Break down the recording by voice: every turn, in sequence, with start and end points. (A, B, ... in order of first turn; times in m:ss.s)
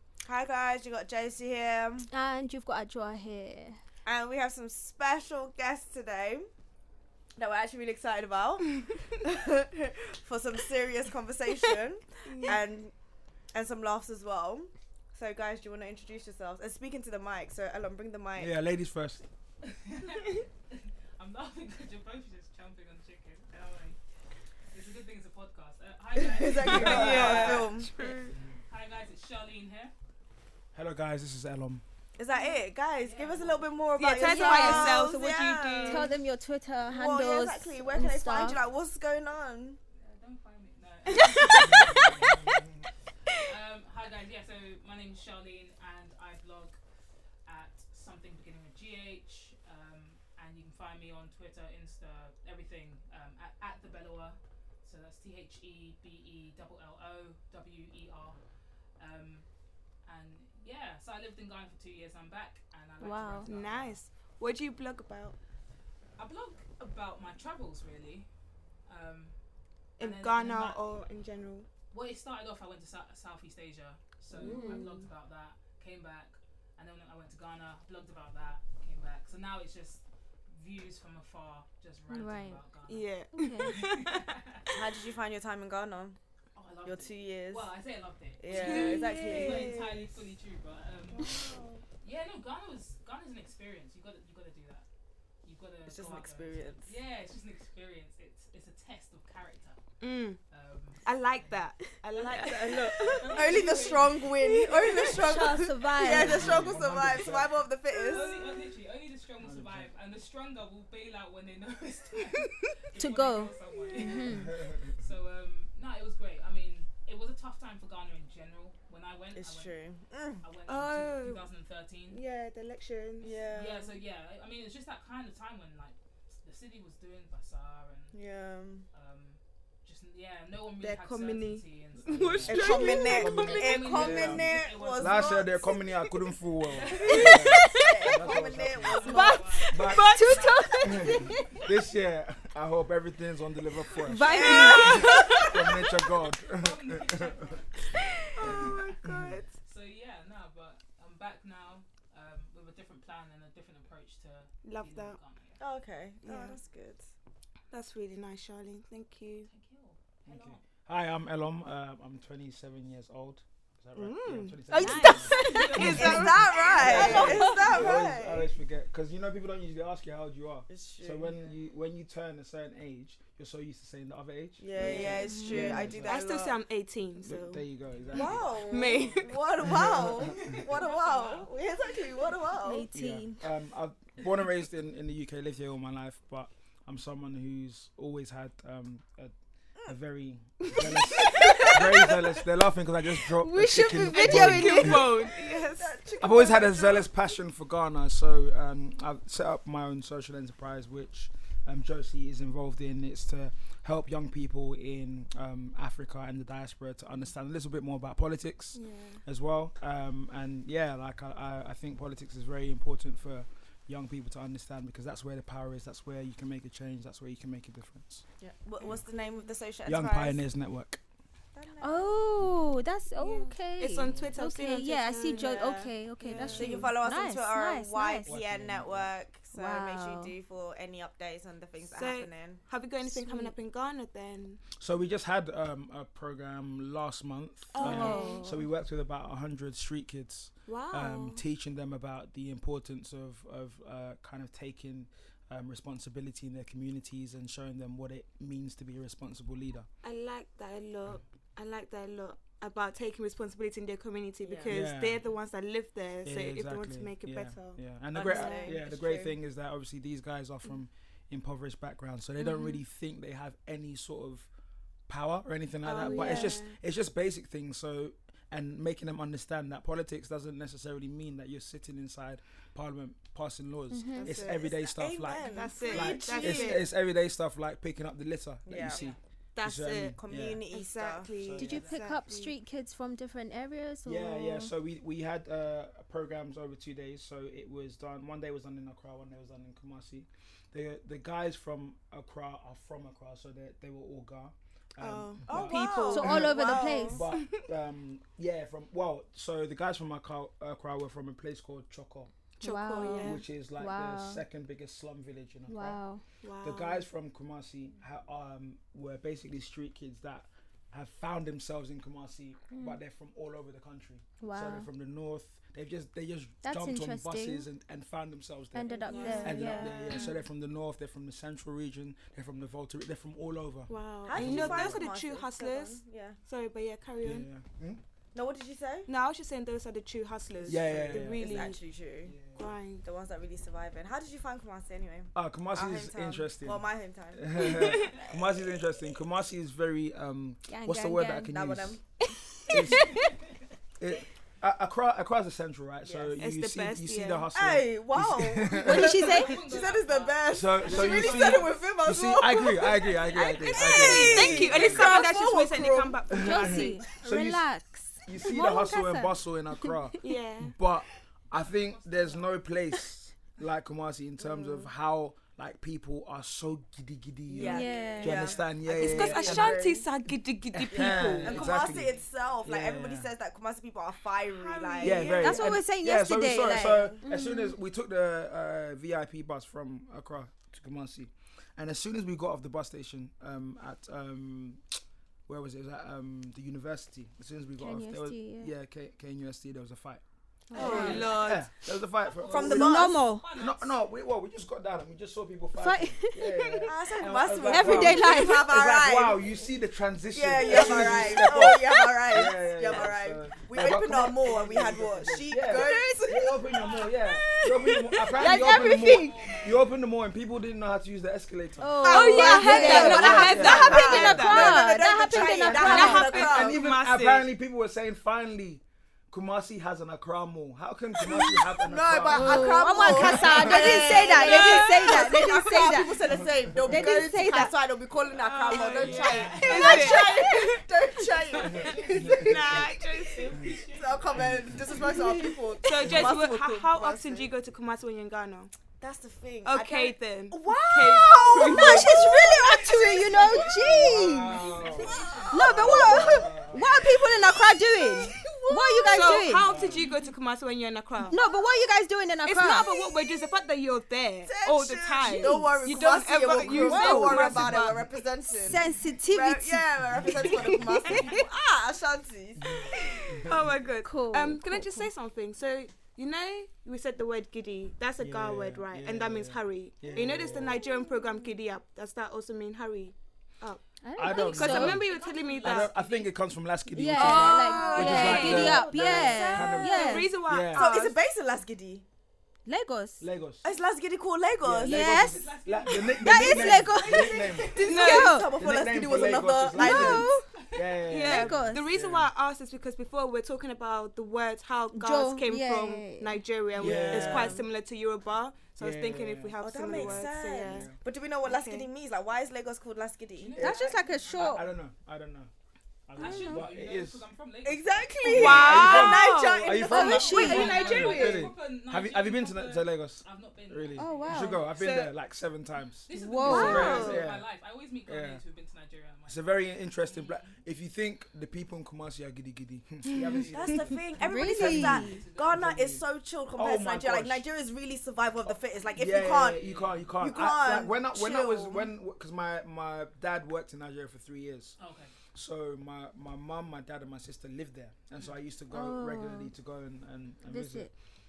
0:00.2-0:02.1 A
0:02.1-0:03.8 B
0:04.0-0:06.5 A
0:07.4-0:12.9 A
0:12.2-0:12.6 C
0:13.5-0:18.6 A
0:18.4-0:19.3 D
0:19.6-0:24.0 E
0:24.7-0:27.7 E
0:26.2-0:28.2 A
0:26.4-0:28.3 C
0:26.7-0:27.6 D
0:28.7-0:29.9 E
0:30.7-0:31.8 D
0:32.2-0:36.2 A
0:32.4-0:33.7 E
0:34.0-0:36.1 C
0:34.2-0:35.1 B
0:35.8-0:38.6 B
0:36.8-0:39.8 A
0:38.5-0:38.8 E
0:40.0-0:42.4 E
0:41.2-0:42.0 C
0:41.6-0:42.8 D
0:43.4-0:46.8 E
0:47.4-0:58.4 E
0:59.0-0:59.4 E
1:00.0-1:04.0 E
1:03.0-1:03.5 B
1:03.4-1:05.4 C
1:06.2-1:08.3 E
1:08.9-1:09.3 E
1:10.0-1:11.7 C
1:10.0-1:11.1 E
1:11.9-1:23.1 E
1:14.3-1:15.1 C
1:14.4-1:14.9 B
1:22.1-1:22.6 B
1:22.9-1:24.4 C
1:23.3-1:23.8 B
1:23.6-1:24.7 E
1:24.7-1:26.2 A
1:26.5-1:31.5 E
1:26.8-1:27.7 A
1:28.4-1:29.9 A
1:28.5-1:30.1 C
1:31.1-1:31.8 C
1:32.0-1:34.8 E
1:35.4-1:39.8 E
1:35.9-1:37.0 A
1:40.0-1:40.4 C
1:40.5-1:45.7 E
1:41.0-1:45.2 C
1:42.3-1:48.5 A
1:44.9-1:46.6 B
1:46.0-1:47.6 D
1:47.9-1:59.8 E
1:49.4-1:49.9 D
1:52.9-1:54.6 B
1:54.3-1:54.9 D
1:59.4-2:00.4 A
2:00.4-2:02.2 E
2:00.7-2:01.4 C
2:02.1-2:03.3 C
2:03.2-2:04.0 A
2:03.2-2:08.2 E
2:08.1-2:08.8 A
2:08.9-2:15.5 E
2:10.8-2:14.0 C
2:12.0-2:20.2 D
2:12.5-2:15.8 A
2:16.6-2:17.4 E
2:17.0-2:18.0 C
2:17.0-2:19.4 A
2:18.8-2:21.4 E
2:19.0-2:21.0 C
2:20.0-2:21.7 B
2:20.8-2:27.4 D
2:24.0-2:25.9 C
2:24.3-2:25.4 A
2:24.3-2:25.0 B
2:26.5-2:27.9 E
2:28.3-2:29.5 C
2:28.4-2:29.4 D
2:29.6-2:35.6 E
2:34.6-2:35.2 C
2:35.6-2:37.1 A
2:36.2-2:36.6 C
2:37.7-2:39.5 C
2:39.5-2:40.6 E
2:40.2-2:56.2 D
2:43.9-2:47.6 C
2:44.7-2:46.1 B
2:45.1-2:48.0 E
2:45.9-2:48.5 A
2:50.7-2:51.3 A
2:54.6-2:56.6 A
2:55.0-2:56.0 B
2:56.0-2:57.6 C
2:57.2-2:58.7 D
2:57.9-2:58.6 E
2:58.1-3:02.9 A
2:58.7-2:59.4 C
2:59.6-3:00.6 D
3:00.3-3:01.9 E
3:02.6-3:03.4 B
3:02.9-3:09.3 D
3:09.8-3:15.1 D
3:10.6-3:12.4 C
3:13.3-3:15.2 B
3:13.8-3:16.0 C
3:15.3-3:17.1 A
3:16.2-3:38.2 D
3:28.7-3:29.2 C
3:38.4-3:40.4 A
3:39.8-3:41.0 D
3:41.5-3:42.3 A
3:41.8-3:48.3 B
3:43.1-3:45.5 C
3:45.3-3:52.6 A
3:46.2-3:46.7 C
3:46.3-3:46.9 D
3:48.2-3:49.1 D
3:49.5-3:50.3 B
3:51.9-3:54.6 C
3:53.2-3:53.5 B
3:54.8-4:09.9 D
3:57.7-3:58.6 C
3:57.8-3:58.6 B
4:00.7-4:01.4 C
4:10.0-4:18.8 C
4:14.4-4:14.7 A
4:14.6-4:15.2 D
4:16.2-4:24.5 D
4:18.1-4:19.4 A
4:25.1-4:40.6 D
4:25.8-4:26.8 C
4:25.9-4:26.6 B
4:33.9-4:34.4 B
4:34.1-4:34.8 C
4:34.5-4:36.8 A
4:35.4-4:36.9 C
4:38.6-4:39.1 A
4:38.9-4:39.2 E
4:39.5-4:40.2 C
4:40.0-4:41.3 A
4:40.7-4:42.5 C
4:41.4-4:42.0 D
4:41.5-4:44.7 B
4:44.0-5:02.3 D
4:55.0-4:57.7 C
4:55.5-4:57.2 A
4:55.9-4:57.2 B
5:02.6-5:03.4 C
5:02.6-5:04.4 B
5:03.0-5:06.0 D
5:05.7-5:06.2 B
5:06.4-5:07.0 C
5:06.6-5:25.1 D
5:12.7-5:13.0 B
5:14.4-5:14.9 B
5:16.6-5:17.7 B
5:18.7-5:20.2 B
5:18.8-5:20.3 A
5:19.0-5:19.7 C
5:23.9-5:27.5 C
5:24.2-5:26.4 A
5:27.2-5:28.0 D
5:28.3-5:29.1 A
5:29.1-5:31.8 C
5:30.6-5:32.6 D
5:30.7-5:32.4 A
5:32.5-5:33.0 C
5:33.0-5:38.8 A
5:35.3-5:42.0 D
5:40.7-5:41.5 B
5:41.5-5:42.0 A
5:42.2-5:43.3 B
5:42.7-5:43.3 D
5:42.7-5:43.6 E
5:44.0-5:49.3 D
5:46.0-5:46.4 A
5:46.4-5:47.5 C
5:47.5-5:56.2 A
5:48.7-5:49.6 B
5:49.1-5:51.8 E
5:50.5-5:55.3 D
5:53.8-5:57.0 C
5:56.3-5:57.7 D
5:56.3-6:00.2 B
5:58.2-6:09.8 D
6:00.2-6:00.7 C
6:01.5-6:02.6 E
6:04.4-6:04.9 A
6:07.5-6:10.0 A
6:07.5-6:08.2 C
6:07.6-6:08.6 B
6:08.3-6:08.6 E
6:08.8-6:11.7 C
6:10.7-6:13.3 D
6:11.2-6:12.7 E
6:11.4-6:15.8 A
6:14.5-6:15.6 C
6:15.0-6:24.8 D
6:15.4-6:17.8 B
6:25.5-6:30.2 D
6:27.8-6:28.7 B
6:30.7-6:31.4 B
6:30.7-6:31.7 C
6:30.7-6:31.4 E
6:30.8-6:31.2 A
6:30.8-6:54.6 D
6:32.2-6:33.9 E
6:32.4-6:33.3 A
6:32.5-6:33.5 B
6:35.7-6:36.9 B
6:36.8-6:39.4 A
6:37.6-6:38.8 B
6:40.3-6:48.4 A
6:40.7-6:42.2 B
6:45.7-6:46.2 B
6:46.8-6:47.1 E
6:48.3-6:49.4 B
6:48.7-6:50.0 E
6:51.8-6:56.5 B
6:52.0-6:56.8 A
6:52.1-6:54.8 C
6:55.7-6:57.5 C
6:56.0-7:04.1 D
7:01.2-7:12.8 A
7:02.3-7:07.7 B
7:03.8-7:05.8 C
7:06.7-7:07.0 D
7:08.3-7:10.5 E
7:08.7-7:10.8 C
7:08.9-7:09.8 D
7:09.8-7:10.2 B
7:11.6-7:14.9 E
7:11.6-7:12.8 D
7:11.6-7:13.4 C
7:12.1-7:12.5 B
7:13.9-7:17.5 A
7:14.4-7:14.7 D
7:15.1-7:15.6 B
7:15.8-7:18.7 C
7:16.0-7:16.3 D
7:19.0-7:23.8 A
7:19.6-7:22.9 C
7:21.5-7:24.8 B
7:23.6-7:27.2 D
7:23.8-7:26.7 E
7:25.0-7:29.4 A
7:25.5-7:29.6 B
7:29.0-7:31.4 C
7:29.6-7:30.0 D
7:31.3-7:32.9 B
7:32.4-7:38.1 C
7:34.4-7:43.3 A
7:35.4-7:35.7 B
7:36.6-7:38.1 D
7:36.8-7:37.6 B
7:38.5-7:41.4 B
7:42.6-7:43.7 D
7:42.9-7:55.9 C
7:44.0-7:45.1 B
7:48.2-7:50.8 D
7:54.0-7:55.0 B
7:54.2-7:55.0 D
7:54.5-7:56.4 E
7:55.6-8:00.9 D
7:56.9-8:00.4 B
7:57.1-8:01.2 C
7:57.7-8:02.0 A
8:02.6-8:03.2 B
8:03.2-8:03.6 D
8:03.6-8:05.2 A
8:04.6-8:07.8 D
8:04.8-8:08.6 B
8:05.1-8:07.9 E
8:07.6-8:10.4 A
8:07.8-8:08.4 C
8:08.4-8:12.3 D
8:09.7-8:10.5 B
8:10.6-8:10.8 E
8:11.1-8:21.9 C
8:11.2-8:11.8 B
8:14.9-8:17.5 B
8:16.8-8:17.6 D
8:18.8-8:21.0 D
8:19.6-8:23.6 A
8:23.4-8:24.7 E
8:23.6-8:25.5 D
8:23.6-8:24.7 B
8:26.1-8:27.2 D
8:26.2-8:28.8 E
8:26.2-8:26.7 B
8:27.6-8:30.3 A
8:28.2-8:31.5 C
8:28.2-8:37.5 D
8:29.8-8:30.8 B
8:30.2-8:34.6 E
8:34.0-8:34.7 B
8:34.8-8:35.1 C
8:36.0-8:40.6 E
8:36.1-8:37.2 B
8:36.4-8:37.2 C
8:38.1-8:38.4 D
8:39.3-8:47.4 D
8:43.1-8:45.2 B
8:43.5-8:51.9 A
8:44.8-8:45.7 E
8:48.9-8:54.8 D
8:49.0-8:50.1 E
8:54.8-8:55.1 E
8:55.3-9:00.9 D
8:58.7-8:59.5 B
9:00.4-9:00.9 B